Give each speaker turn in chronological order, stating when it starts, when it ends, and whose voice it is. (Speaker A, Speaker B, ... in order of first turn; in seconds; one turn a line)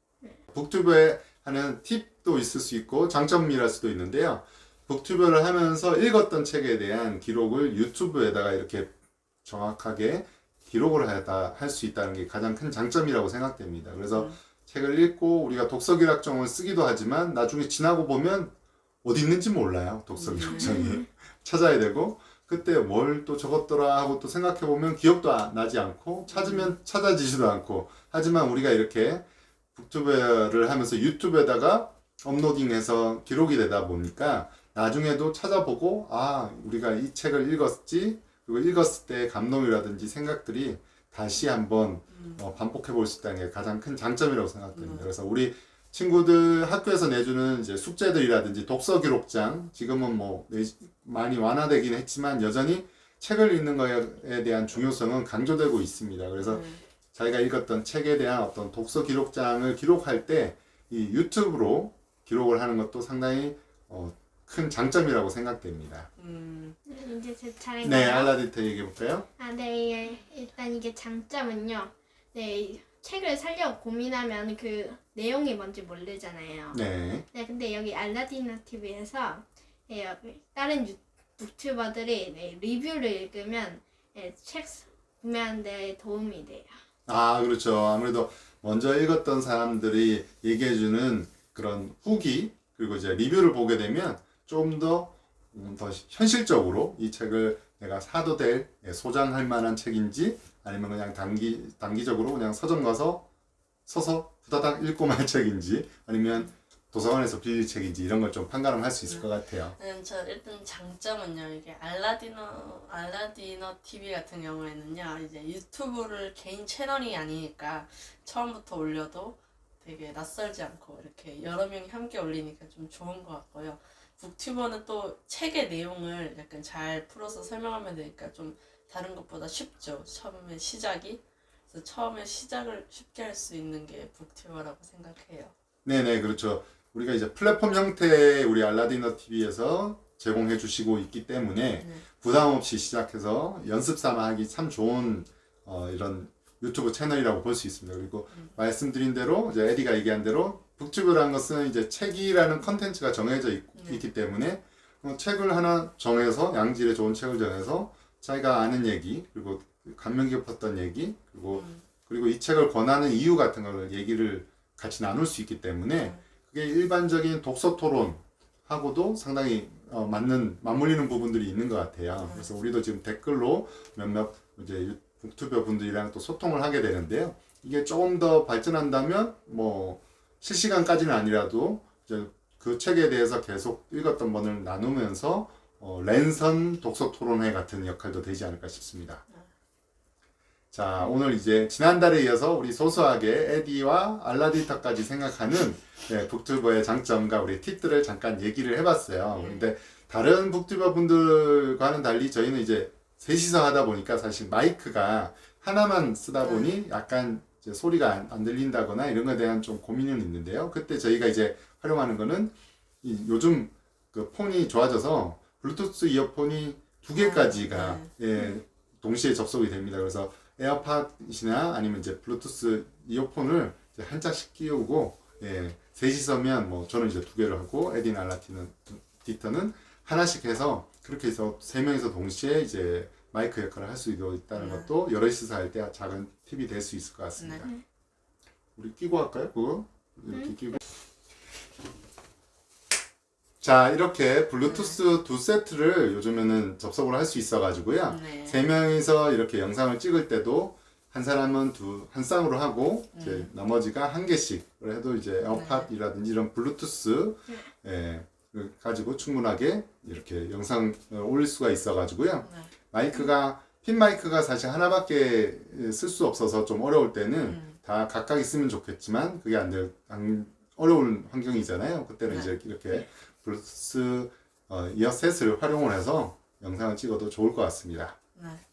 Speaker A: 0.5-8.9
Speaker A: 9.4-56.6
Speaker B: 14.0-14.3
Speaker B: 20.1-20.9
Speaker C: 20.5-21.0
Speaker B: 26.3-26.7
Speaker B: 42.1-42.4
Speaker B: 44.7-45.1
Speaker B: 56.4-56.8
Speaker A: 57.1-66.1
Speaker B: 66.2-66.8
Speaker C: 66.9-68.3
Speaker A: 67.8-69.3
Speaker C: 69.4-76.8
Speaker A: 76.7-77.2
Speaker C: 77.3-86.7
Speaker A: 87.0-103.3
Speaker A: 103.9-109.7
Speaker B: 109.0-135.5
Speaker A: 135.8-189.2
Speaker B: 153.8-154.0
Speaker B: 161.5-161.8
Speaker B: 165.9-166.2
Speaker B: 172.2-172.5
Speaker A: 190.7-237.7
Speaker B: 199.3-199.7
Speaker B: 206.4-206.8
Speaker B: 217.2-218.1
Speaker B: 234.5-234.9
Speaker B: 237.4-237.7
Speaker A: 238.8-240.8
Speaker A: 243.6-278.2
Speaker B: 244.6-245.0
Speaker B: 248.1-248.6
Speaker B: 253.1-253.5
Speaker B: 255.5-255.9
Speaker B: 267.4-267.7
Speaker B: 272.3-272.5
Speaker B: 278.3-278.6